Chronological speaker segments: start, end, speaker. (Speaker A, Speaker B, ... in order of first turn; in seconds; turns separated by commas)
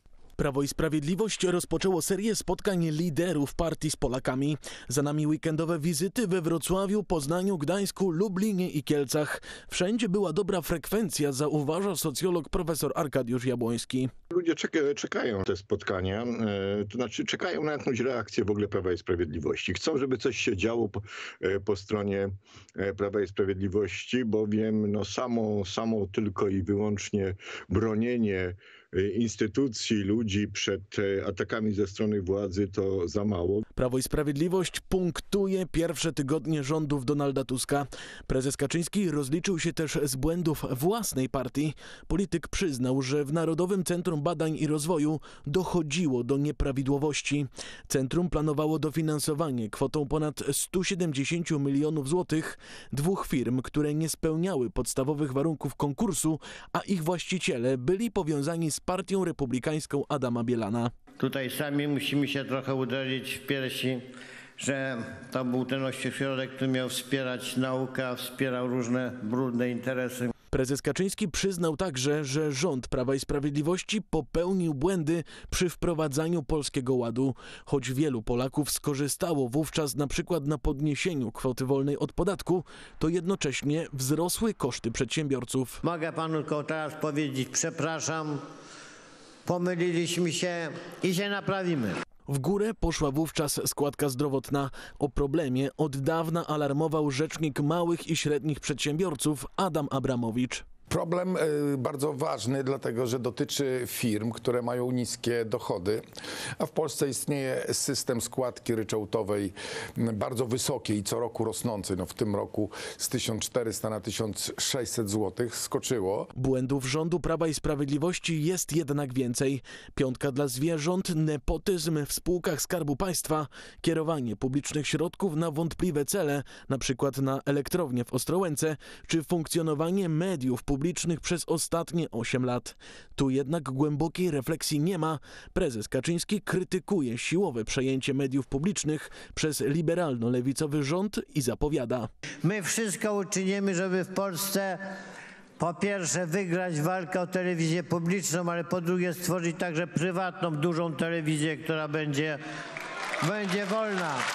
Speaker A: 0.4-14.1, Speaker B: 14.3-33.6, Speaker A: 33.8-60.9, Speaker C: 61.2-64.0, Speaker C: 64.6-70.3, Speaker A: 70.5-85.8, Speaker C: 85.8-88.4, Speaker C: 89.5-92.0, Speaker A: 92.3-100.6, Speaker D: 100.9-106.0, Speaker D: 106.6-116.3, Speaker A: 116.3-142.1, Speaker C: 142.4-144.8, Speaker C: 145.6-152.4, Speaker C: 153.2-154.2